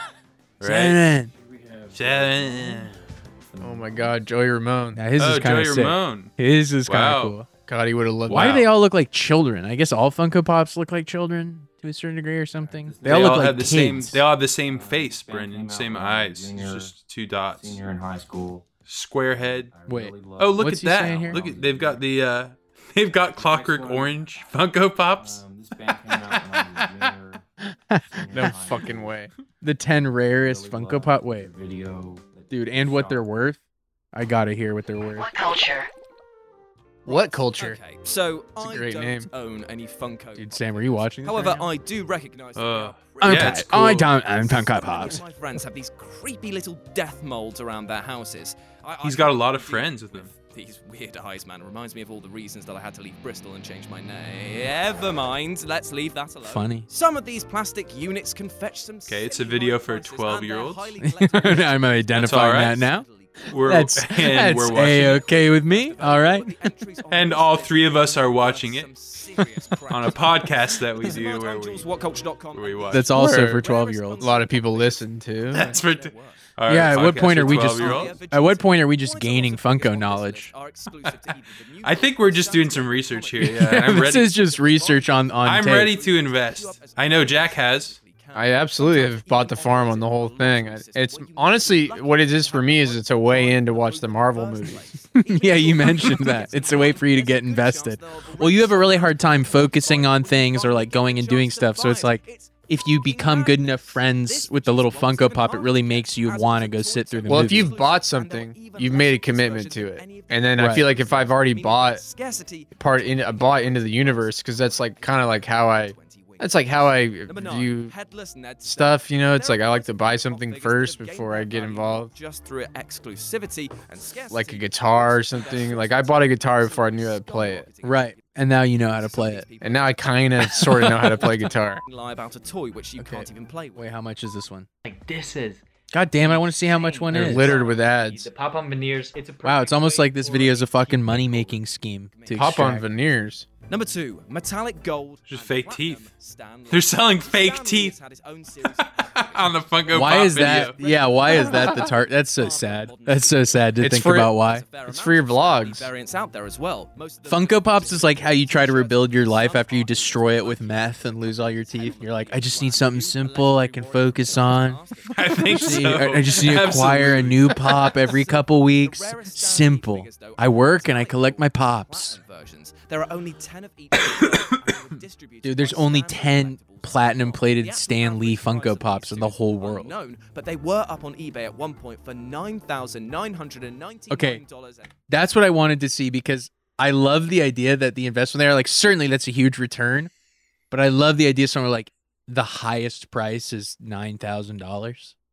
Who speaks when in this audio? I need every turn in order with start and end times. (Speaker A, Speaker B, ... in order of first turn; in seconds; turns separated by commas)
Speaker A: 0.6-1.0, Speaker B: 0.6-1.3, Speaker C: 1.1-4.2, Speaker A: 1.9-2.9, Speaker D: 3.6-5.0, Speaker B: 5.0-7.5, Speaker A: 5.2-6.3, Speaker A: 6.9-7.4, Speaker D: 7.7-8.7, Speaker B: 8.3-14.2, Speaker C: 12.6-16.9, Speaker A: 13.0-17.8, Speaker C: 17.5-18.7, Speaker A: 18.9-19.7, Speaker C: 19.3-22.0, Speaker B: 19.9-21.4, Speaker A: 20.4-25.4, Speaker C: 23.2-24.5, Speaker C: 25.1-27.5, Speaker B: 27.9-28.5, Speaker C: 28.1-29.2, Speaker D: 28.3-29.3, Speaker B: 29.6-31.5, Speaker C: 30.4-33.3, Speaker B: 32.5-33.6, Speaker B: 34.1-35.3, Speaker E: 35.2-35.9, Speaker D: 37.1-37.8, Speaker F: 37.1-63.6, Speaker D: 38.6-39.3, Speaker B: 40.4-41.7, Speaker A: 42.6-44.1, Speaker B: 43.2-45.2, Speaker A: 49.0-50.3, Speaker B: 56.4-56.9, Speaker A: 59.1-60.9, Speaker B: 61.0-63.1, Speaker A: 62.1-62.9, Speaker A: 63.5-65.3, Speaker B: 63.6-66.7, Speaker F: 64.8-76.5, Speaker A: 67.1-68.9, Speaker A: 69.9-71.9, Speaker A: 72.5-73.1, Speaker B: 72.9-74.4, Speaker D: 73.1-73.7, Speaker D: 74.2-75.8, Speaker A: 75.5-78.2, Speaker B: 76.7-80.5, Speaker F: 77.2-130.2, Speaker A: 81.8-84.4, Speaker B: 83.4-86.0, Speaker A: 85.4-88.0, Speaker D: 88.3-94.9, Speaker B: 95.3-107.8, Speaker D: 107.3-112.0, Speaker B: 110.6-110.9, Speaker D: 112.8-117.9, Speaker D: 118.6-122.1, Speaker D: 124.3-127.7, Speaker B: 127.8-129.5, Speaker D: 129.6-131.8, Speaker B: 130.5-131.4, Speaker F: 131.8-133.8, Speaker B: 133.0-134.7, Speaker E: 134.8-135.6, Speaker B: 135.9-137.6, Speaker E: 136.2-140.4, Speaker D: 137.1-138.3, Speaker B: 139.4-142.9, Speaker F: 139.9-142.8, Speaker D: 142.3-143.5, Speaker F: 143.7-165.8, Speaker A: 145.3-146.1, Speaker A: 146.7-148.0, Speaker A: 148.7-150.8, Speaker B: 149.9-154.7, Speaker D: 153.8-154.3, Speaker D: 154.9-155.8, Speaker B: 157.2-172.2, Speaker A: 165.1-167.8, Speaker F: 167.4-184.9, Speaker B: 175.4-179.9, Speaker B: 184.1-184.4, Speaker B: 185.1-190.1, Speaker B: 190.7-195.2